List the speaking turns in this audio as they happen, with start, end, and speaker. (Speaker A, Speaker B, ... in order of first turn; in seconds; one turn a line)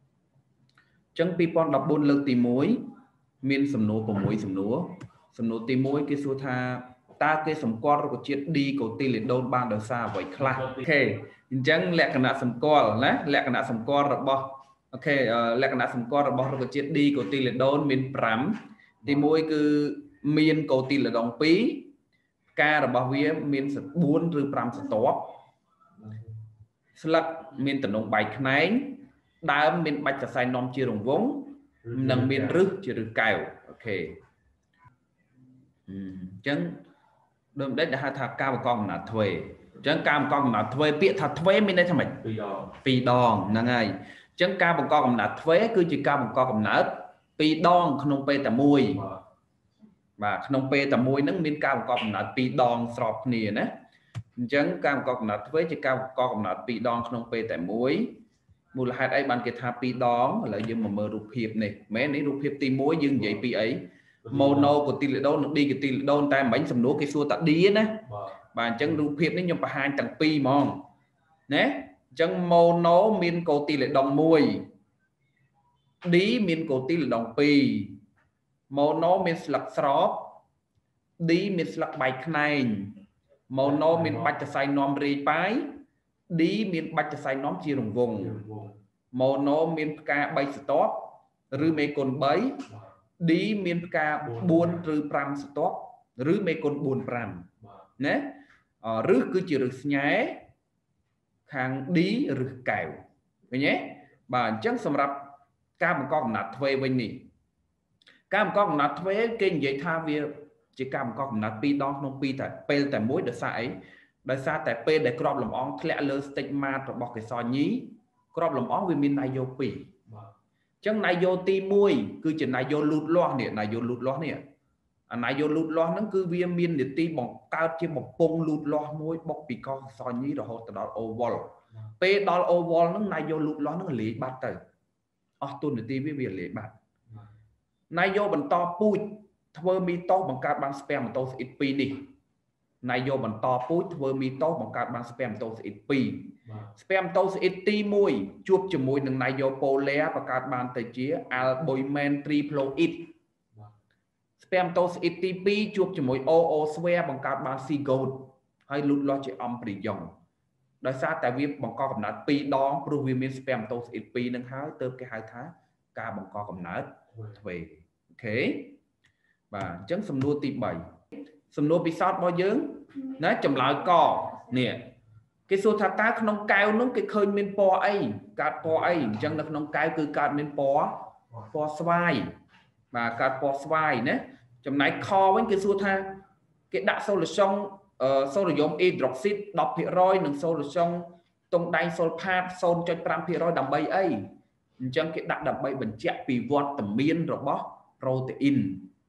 Speaker A: 1.1-2.8
Speaker A: 3.4-21.9
Speaker A: 22.6-25.3
Speaker A: 27.0-34.2
Speaker B: 31.8-32.6
Speaker A: 35.9-36.8
Speaker A: 37.5-42.2
Speaker B: 42.2-42.7
Speaker A: 42.8-49.0
Speaker B: 48.9-49.2
Speaker A: 50.2-53.7
Speaker A: 54.4-58.1
Speaker A: 58.7-68.0
Speaker B: 64.2-64.8
Speaker B: 68.1-68.4
Speaker A: 68.5-70.8
Speaker A: 71.5-74.7
Speaker A: 76.0-78.0
Speaker A: 78.7-80.4
Speaker A: 81.2-83.0
Speaker A: 83.5-85.7
Speaker B: 83.6-84.3
Speaker A: 86.3-88.4
Speaker B: 88.2-88.8
Speaker A: 89.1-92.6
Speaker A: 93.2-97.5
Speaker B: 94.3-94.8
Speaker A: 98.0-98.3
Speaker A: 98.8-100.4
Speaker A: 101.5-107.3
Speaker A: 108.3-119.9
Speaker A: 120.8-124.4
Speaker A: 125.1-134.6
Speaker A: 135.4-136.7
Speaker A: 137.9-142.0
Speaker A: 142.8-153.1
Speaker B: 146.4-146.7
Speaker A: 154.4-160.1
Speaker A: 160.8-168.7
Speaker A: 169.5-170.8
Speaker A: 171.5-174.9
Speaker A: 175.5-182.3
Speaker A: 182.9-194.2
Speaker A: 194.8-198.9